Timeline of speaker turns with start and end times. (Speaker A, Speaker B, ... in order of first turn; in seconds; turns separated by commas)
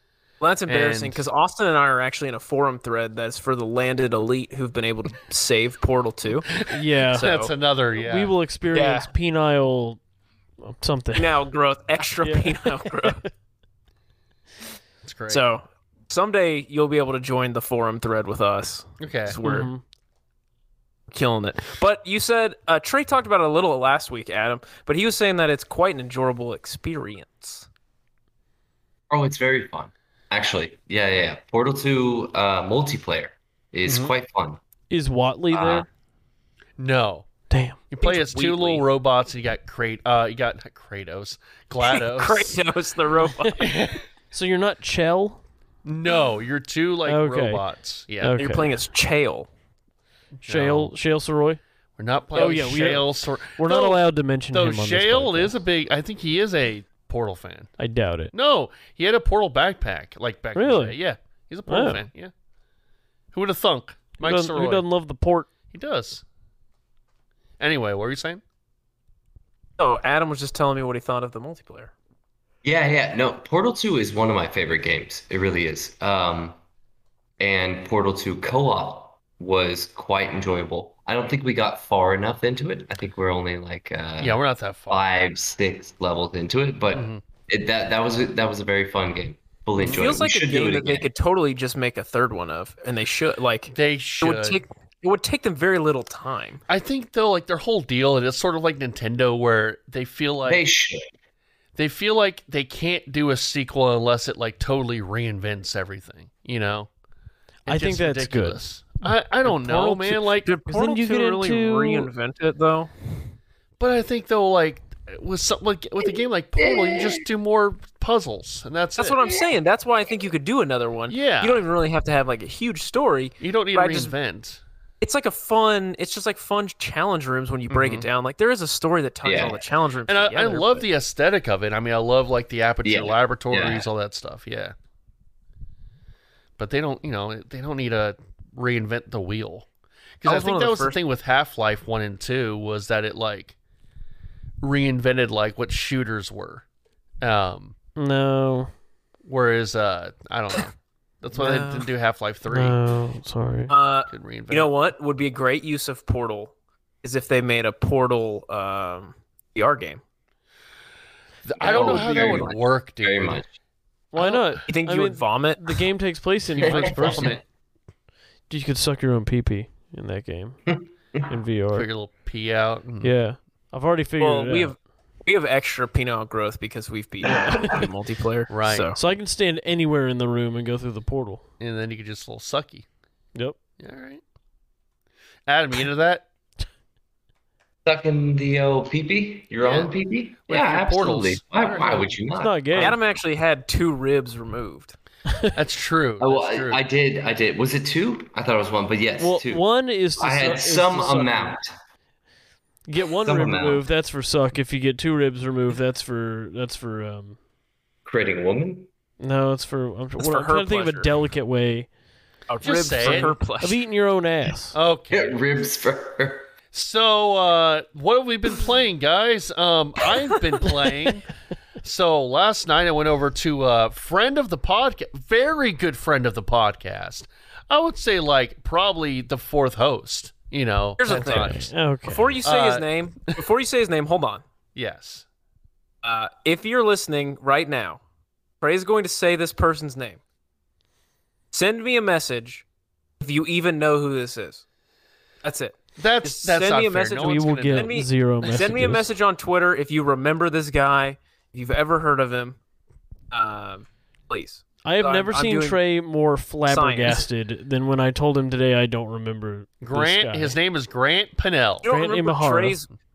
Speaker A: 0.4-6.6, Speaker B: 0.7-1.2, Speaker B: 6.6-8.3, Speaker C: 6.7-7.3, Speaker A: 7.1-7.5, Speaker C: 8.0-10.0, Speaker A: 8.7-9.1, Speaker C: 10.6-11.3, Speaker A: 11.2-13.2, Speaker C: 12.2-13.2, Speaker B: 15.0-15.4, Speaker A: 15.3-19.7, Speaker B: 19.0-19.4, Speaker C: 19.4-19.8, Speaker A: 21.1-27.7, Speaker D: 29.1-34.6, Speaker B: 33.9-34.1, Speaker C: 34.9-35.9, Speaker D: 35.5-35.9, Speaker B: 36.8-37.3, Speaker C: 37.5-37.8, Speaker B: 37.9-42.6, Speaker A: 38.0-38.8, Speaker A: 41.8-43.6, Speaker B: 43.6-44.0, Speaker C: 44.3-45.4, Speaker B: 45.8-48.4, Speaker C: 47.0-47.6, Speaker C: 48.2-48.7, Speaker A: 48.4-49.5, Speaker B: 50.4-50.9, Speaker C: 50.4-51.6, Speaker B: 52.0-54.0, Speaker C: 52.3-55.5, Speaker B: 54.5-57.7, Speaker C: 57.8-58.3, Speaker B: 58.3-62.3, Speaker C: 60.5-61.0, Speaker C: 61.7-62.0, Speaker B: 63.3-64.8, Speaker C: 64.2-65.5, Speaker B: 65.7-66.2, Speaker B: 67.6-68.4, Speaker A: 69.8-71.9, Speaker D: 72.6-76.6, Speaker D: 77.4-91.1, Speaker B: 84.2-85.0, Speaker B: 86.9-87.2, Speaker B: 89.7-90.1, Speaker A: 89.8-96.6, Speaker B: 93.7-94.6, Speaker B: 96.7-100.6, Speaker D: 100.5-101.1, Speaker B: 101.8-106.9, Speaker B: 107.7-110.5, Speaker C: 107.7-108.6, Speaker A: 109.5-112.9, Speaker C: 109.5-109.9, Speaker C: 110.7-112.1, Speaker B: 113.8-119.2, Speaker D: 116.6-117.2, Speaker A: 119.0-124.1, Speaker B: 121.1-121.6, Speaker B: 123.4-124.6, Speaker A: 125.0-130.8, Speaker B: 127.7-128.1, Speaker D: 129.2-129.6, Speaker B: 130.1-134.7, Speaker D: 132.8-133.8, Speaker B: 136.6-139.7, Speaker B: 140.2-143.6, Speaker A: 140.2-141.0, Speaker B: 144.6-146.6, Speaker B: 147.2-147.7, Speaker C: 147.9-148.7, Speaker B: 149.2-152.8, Speaker A: 151.3-151.9, Speaker C: 152.5-153.7, Speaker A: 153.7-160.0, Speaker B: 154.1-154.7, Speaker B: 161.4-163.4, Speaker D: 161.6-163.5, Speaker C: 164.1-167.3, Speaker B: 164.2-164.5, Speaker A: 164.7-165.8, Speaker B: 166.6-167.4, Speaker D: 166.6-167.4, Speaker C: 168.5-170.6, Speaker D: 170.7-171.2, Speaker C: 171.3-171.9, Speaker B: 171.7-173.1, Speaker C: 173.0-174.7, Speaker A: 174.2-179.0, Speaker C: 177.2-177.7, Speaker B: 178.5-178.9, Speaker C: 178.9-181.4, Speaker B: 181.6-182.8, Speaker B: 183.8-184.2, Speaker B: 185.5-186.3, Speaker D: 187.8-192.9, Speaker B: 189.6-189.9, Speaker B: 190.5-192.2, Speaker C: 192.4-193.0, Speaker A: 192.8-194.9, Speaker C: 195.3-195.5, Speaker B: 195.5-196.8, Speaker D: 196.2-199.6, Speaker C: 199.2-201.5, Speaker D: 200.2-201.7, Speaker C: 202.9-207.4, Speaker D: 203.2-203.8, Speaker D: 208.0-208.9, Speaker C: 209.2-211.9, Speaker A: 210.2-211.1, Speaker A: 212.5-213.8, Speaker B: 212.6-213.3, Speaker C: 213.1-214.8, Speaker B: 214.7-215.4, Speaker D: 215.1-216.5, Speaker B: 216.7-221.3, Speaker B: 221.8-231.7, Speaker A: 231.0-234.4, Speaker C: 231.1-232.4, Speaker B: 232.4-232.9, Speaker B: 234.7-235.2, Speaker A: 236.0-238.0, Speaker A: 238.6-240.2, Speaker A: 241.5-242.6, Speaker A: 243.2-244.6, Speaker A: 245.4-252.6, Speaker B: 246.0-248.0, Speaker C: 247.2-249.0, Speaker A: 253.3-255.8, Speaker C: 254.8-260.6, Speaker A: 256.7-257.3, Speaker B: 259.8-261.9, Speaker A: 261.8-262.9, Speaker C: 261.8-262.8